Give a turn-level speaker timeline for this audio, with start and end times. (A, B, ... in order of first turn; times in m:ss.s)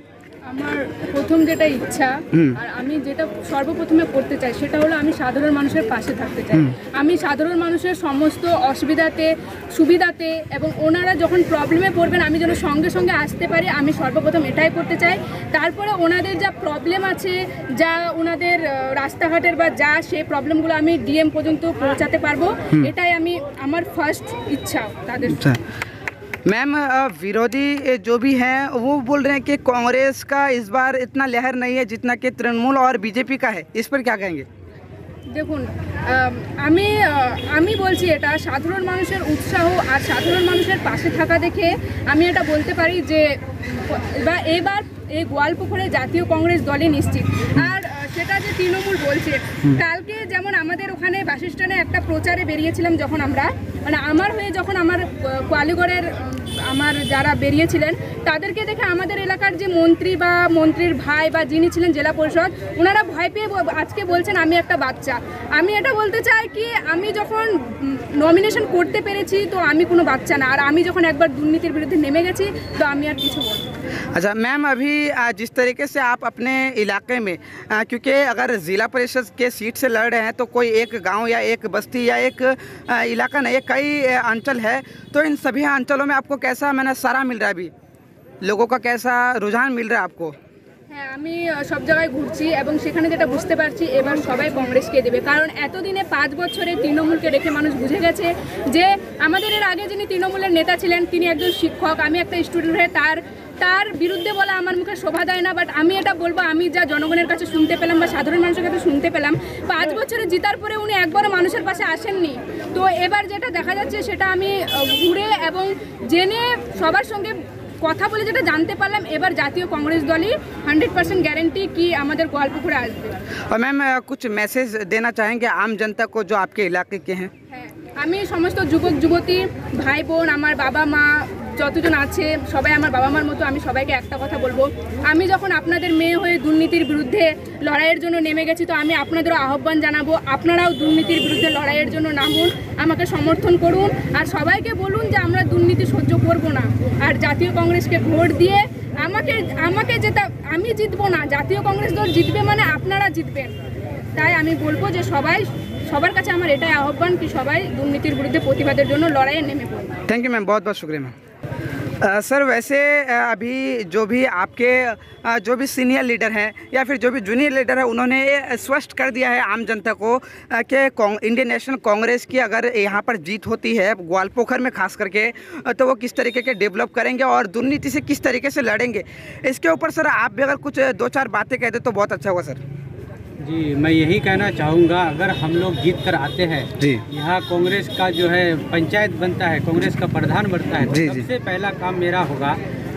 0:00.4-0:25.5 A
0:02.3-0:02.6 B
0:25.3-0:25.6 B
0:26.4-0:34.4 B
0:35.3-1:13.7 A
1:14.1-1:27.7 B
1:28.4-1:30.3 B
1:30.9-2:03.2 A
2:03.5-2:07.3 B
2:07.5-2:33.6 A
2:34.1-2:40.0 A
2:40.1-2:41.1 B
2:42.0-3:02.6 B
3:03.4-3:12.6 C
3:06.8-3:07.0 B
3:10.9-3:11.3 B